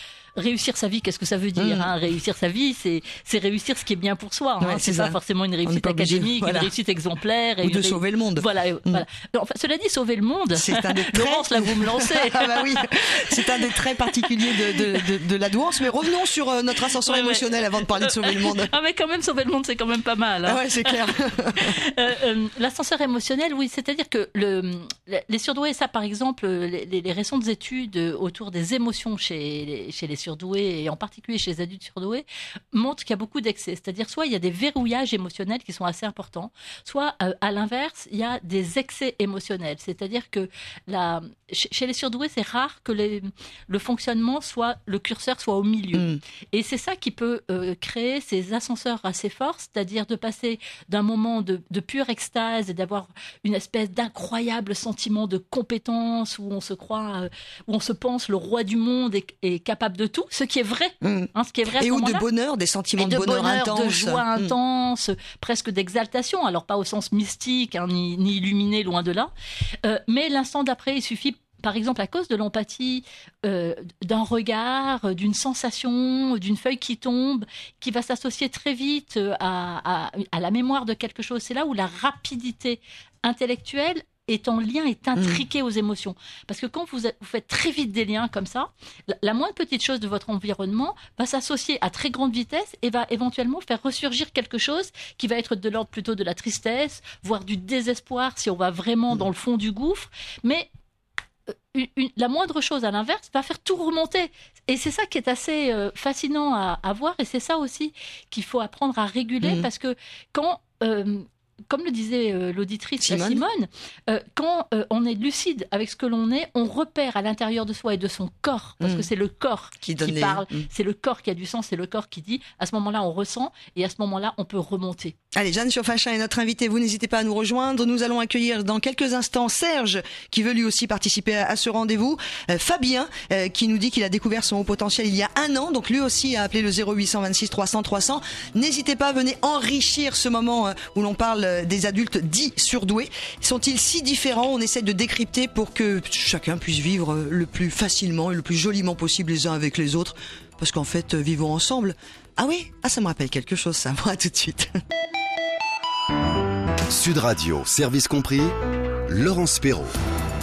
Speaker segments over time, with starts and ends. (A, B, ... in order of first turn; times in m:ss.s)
0:00.4-0:14.9 A
0:01.6-0:01.9 B
0:04.6-0:06.7 B
0:07.6-0:09.0 B
0:10.5-0:18.7 B
0:17.0-1:02.2 A
0:20.5-0:21.8 B
0:46.0-0:46.2 B
1:01.0-1:04.5 B
1:03.0-1:09.3 A
1:09.8-1:40.7 A
1:25.2-1:25.4 B
1:41.7-2:05.2 A
1:49.4-1:49.7 B
1:53.0-1:53.4 B
1:58.8-1:59.1 B
1:59.8-2:00.7 B
2:05.3-2:34.7 B
2:36.9-2:38.5 C
2:39.1-2:39.9 C